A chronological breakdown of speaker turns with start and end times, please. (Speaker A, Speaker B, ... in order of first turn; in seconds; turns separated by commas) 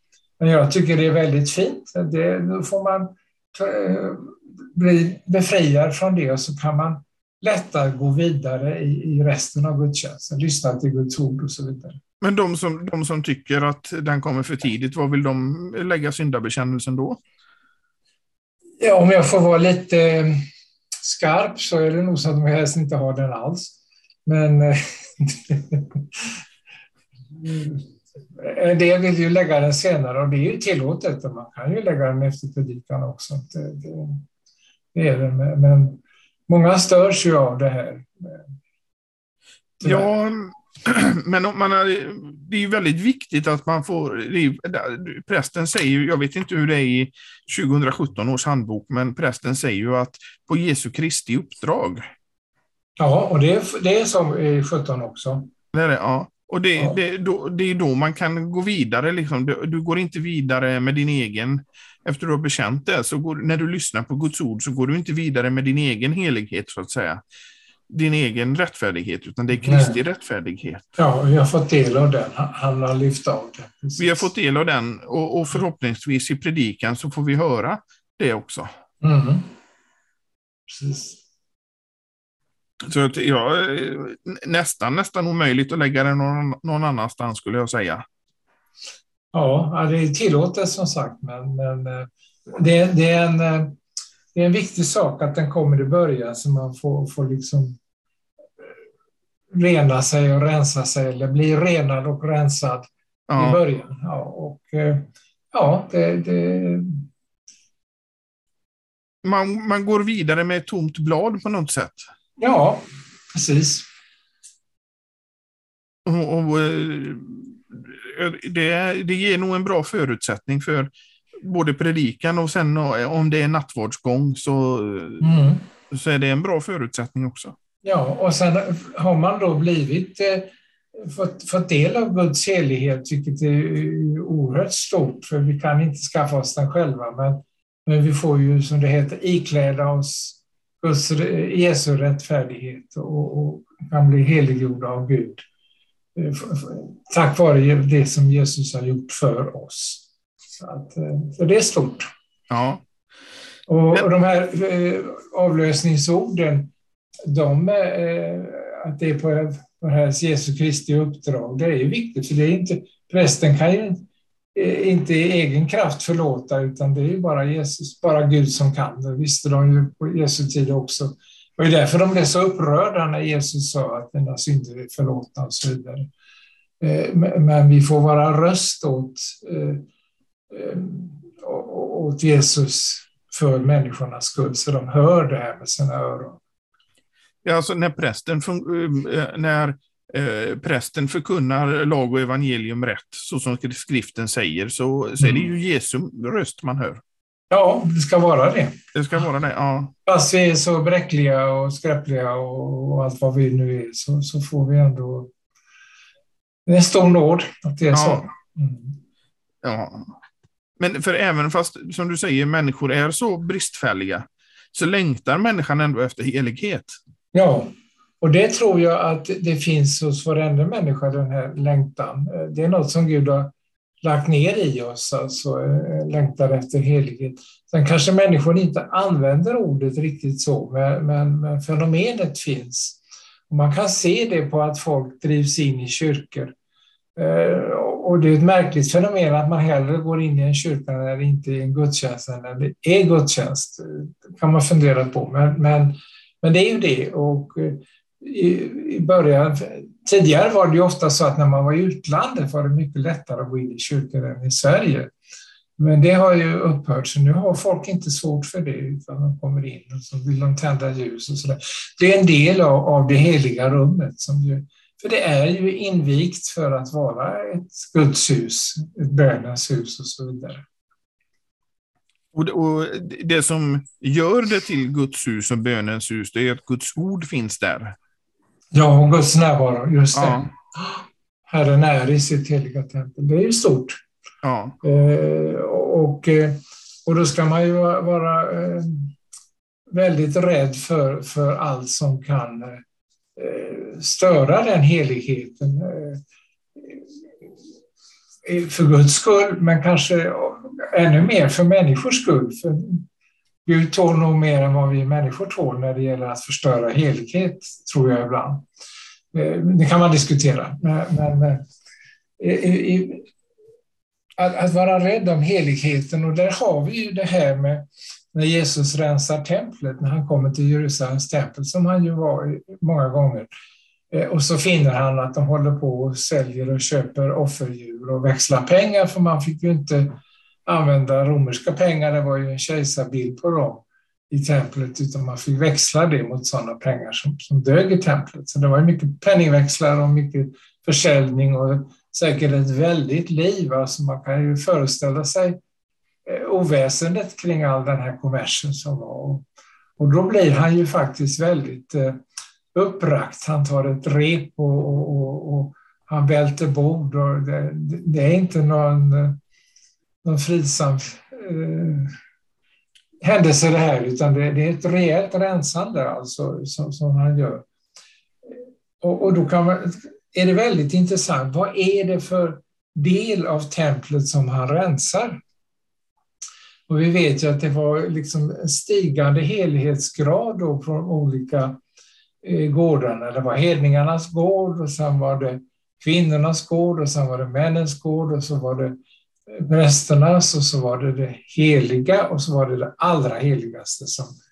Speaker A: 0.4-12.0, Speaker B: 12.2-17.2, Speaker A: 18.8-20.4, Speaker A: 21.0-26.3, Speaker A: 27.4-34.2, Speaker A: 34.9-38.4, Speaker A: 39.8-40.1, Speaker B: 39.8-52.0, Speaker A: 53.0-55.5, Speaker B: 55.7-67.2, Speaker B: 67.9-70.8, Speaker A: 69.5-70.0, Speaker A: 71.0-74.3, Speaker B: 74.0-78.7, Speaker A: 79.0-79.5, Speaker A: 80.7-81.2, Speaker B: 82.8-88.0, Speaker A: 89.3-93.8, Speaker A: 94.3-97.8, Speaker A: 99.5-107.1, Speaker B: 103.3-103.6, Speaker B: 109.2-112.0, Speaker A: 112.4-113.8, Speaker B: 116.0-127.5, Speaker A: 125.2-125.7, Speaker A: 127.8-145.4, Speaker A: 146.2-150.0, Speaker A: 150.6-152.1, Speaker B: 152.5-152.8, Speaker A: 153.7-156.7, Speaker A: 157.2-176.1, Speaker A: 176.8-179.8, Speaker A: 180.5-186.4, Speaker B: 187.4-197.0, Speaker A: 195.2-195.5, Speaker A: 197.5-198.8, Speaker B: 198.9-199.9, Speaker A: 200.1-205.3, Speaker A: 206.7-208.9, Speaker B: 207.9-208.2, Speaker B: 209.6-210.1, Speaker B: 210.8-217.0, Speaker A: 217.3-236.5, Speaker A: 237.2-255.1, Speaker A: 255.8-270.6, Speaker B: 272.3-277.9, Speaker A: 278.7-284.0, Speaker B: 280.1-280.5, Speaker B: 284.4-284.8, Speaker A: 284.8-289.1, Speaker A: 289.9-292.8, Speaker A: 293.4-296.2, Speaker A: 298.4-303.1, Speaker A: 303.6-308.6, Speaker A: 309.3-311.6, Speaker A: 312.4-313.3, Speaker A: 314.4-323.5, Speaker A: 324.1-330.1, Speaker A: 330.6-345.6, Speaker A: 346.2-349.4, Speaker A: 350.0-359.4, Speaker A: 360.2-362.1, Speaker A: 363.2-367.6, Speaker A: 368.5-375.4, Speaker A: 376.9-381.8, Speaker A: 382.4-389.0, Speaker A: 389.5-394.3